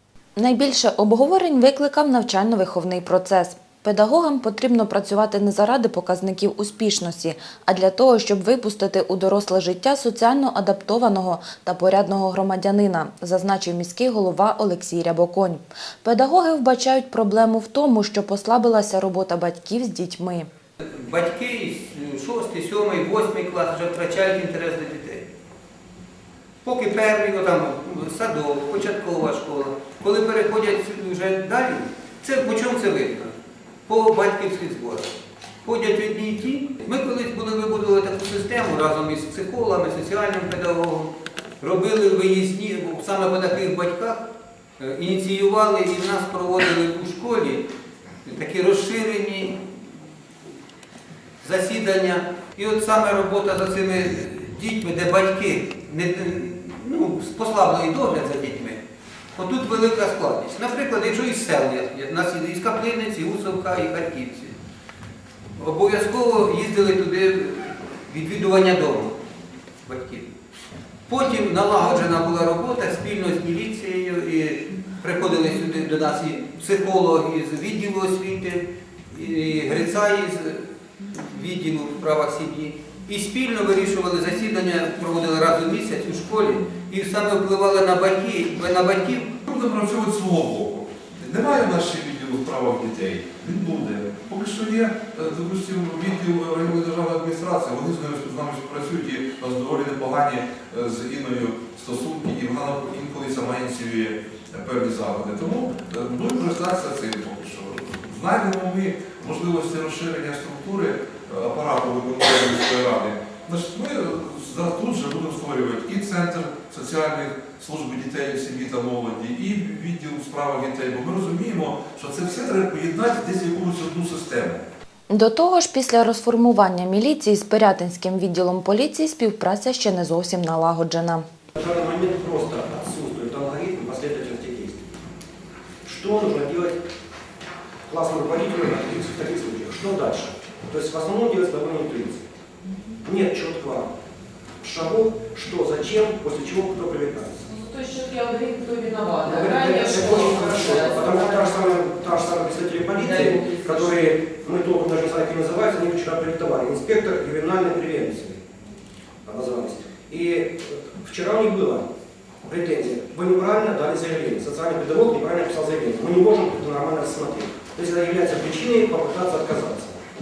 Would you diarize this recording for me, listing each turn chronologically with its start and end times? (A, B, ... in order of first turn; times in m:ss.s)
0:00.4-0:20.5 A
0:20.9-0:25.3 B
0:26.6-0:33.3 B
0:33.9-0:35.1 B
0:35.6-0:44.2 B
0:44.8-0:47.6 B
0:48.2-0:50.0 B
0:51.4-0:58.8 B
0:59.3-1:04.6 B
1:05.6-1:09.2 B
1:09.8-1:10.3 B
1:11.1-1:29.4 B
1:29.5-2:04.6 C
2:05.1-2:11.2 A
2:11.5-2:14.9 D
2:15.8-2:16.8 D
2:17.9-2:22.2 D
2:23.0-2:23.9 D
2:24.6-2:27.6 D
2:27.6-2:31.5 E
2:29.2-2:38.4 D
2:33.1-2:33.7 E
2:39.2-2:41.8 D
2:42.4-2:50.0 D